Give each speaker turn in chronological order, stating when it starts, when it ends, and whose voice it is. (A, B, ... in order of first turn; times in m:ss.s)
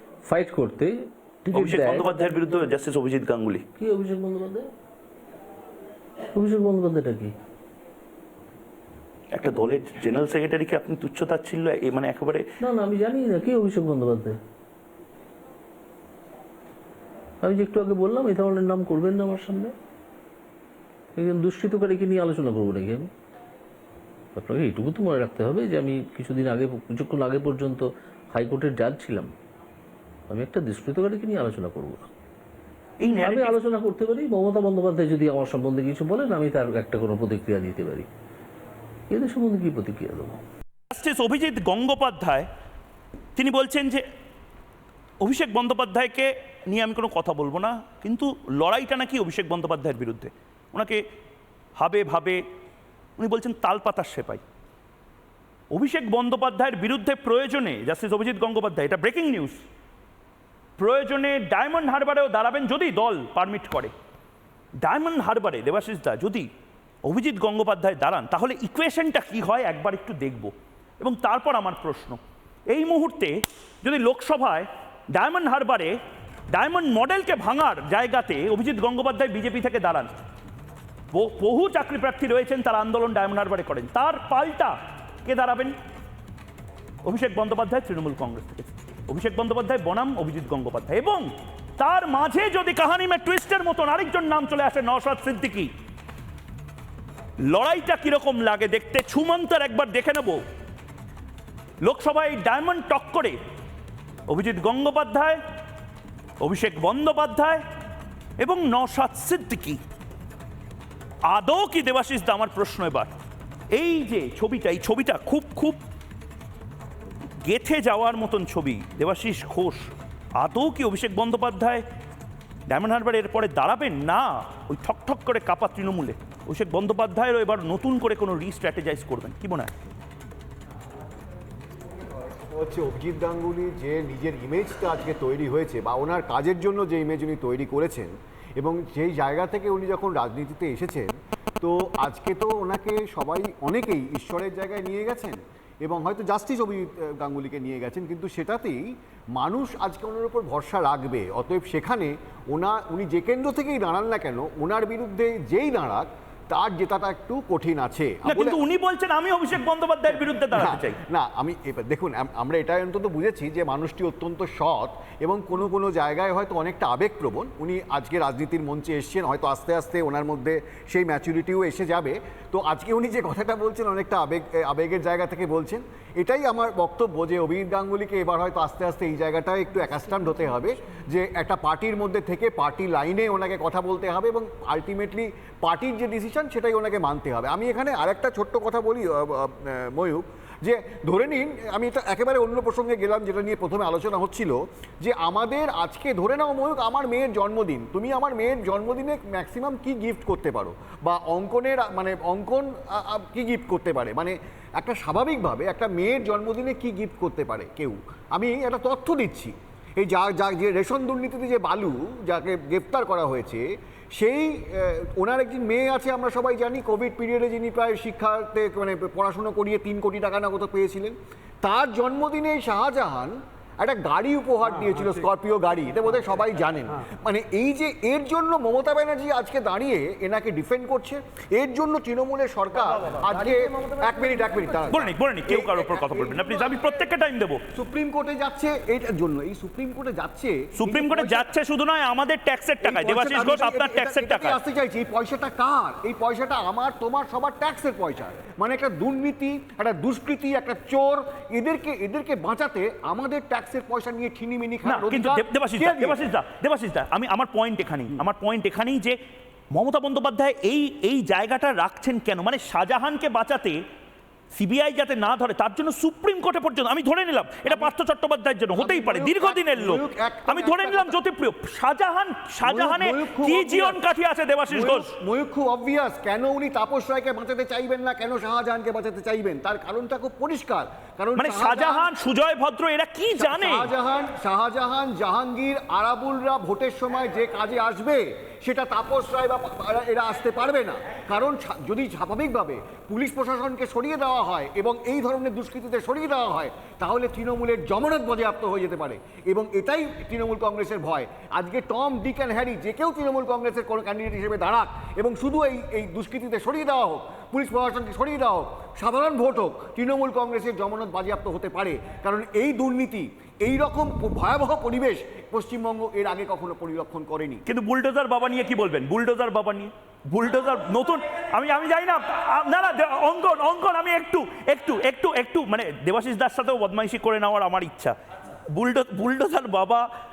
0:00.3-0:02.1 A
0:01.5-0:03.6 B
0:03.8-0:04.7 A
0:06.4-0:07.3 A
0:09.3-0:12.4 B
0:12.6-0:14.4 A
0:17.4-0:19.7 A
0:21.2-0:23.1 A
0:24.4-0:29.3 A
0:30.3-0:32.1 A
0:33.0-0:33.6 B
0:33.2-0:38.1 A
0:39.1-0:40.4 A
0:40.9-0:42.5 B
0:43.4-0:44.0 B
0:45.2-0:51.0 B
0:51.8-0:52.4 B
0:53.2-0:54.4 B
0:55.7-0:59.6 B
1:00.8-1:03.9 B
1:04.8-1:06.5 B
1:07.1-1:15.9 B
1:16.5-1:20.1 B
1:21.1-1:25.8 B
1:27.0-1:35.7 B
1:37.4-1:40.4 B
1:41.8-1:43.4 B
1:44.3-1:45.4 B
1:46.4-1:47.6 B
1:48.4-1:49.8 B
1:51.3-1:53.1 B
1:53.8-1:55.8 B
1:57.5-2:01.8 B
2:02.7-2:09.7 B
2:12.5-2:28.8 C
2:29.4-2:38.6 C
2:38.2-2:41.0 B
2:40.5-3:57.1 C
3:54.9-3:57.6 B
3:57.7-4:01.6 C
4:00.8-4:04.6 B
4:02.8-4:16.2 C
4:14.9-4:19.2 B
4:19.7-4:23.8 B
4:24.5-4:35.1 B
4:27.7-4:27.9 C
4:28.8-4:31.2 C
4:32.6-4:34.0 C
4:34.7-4:42.1 C
4:41.4-4:43.9 B
4:43.3-5:17.6 C
5:17.7-5:28.2 B
5:28.7-5:30.1 B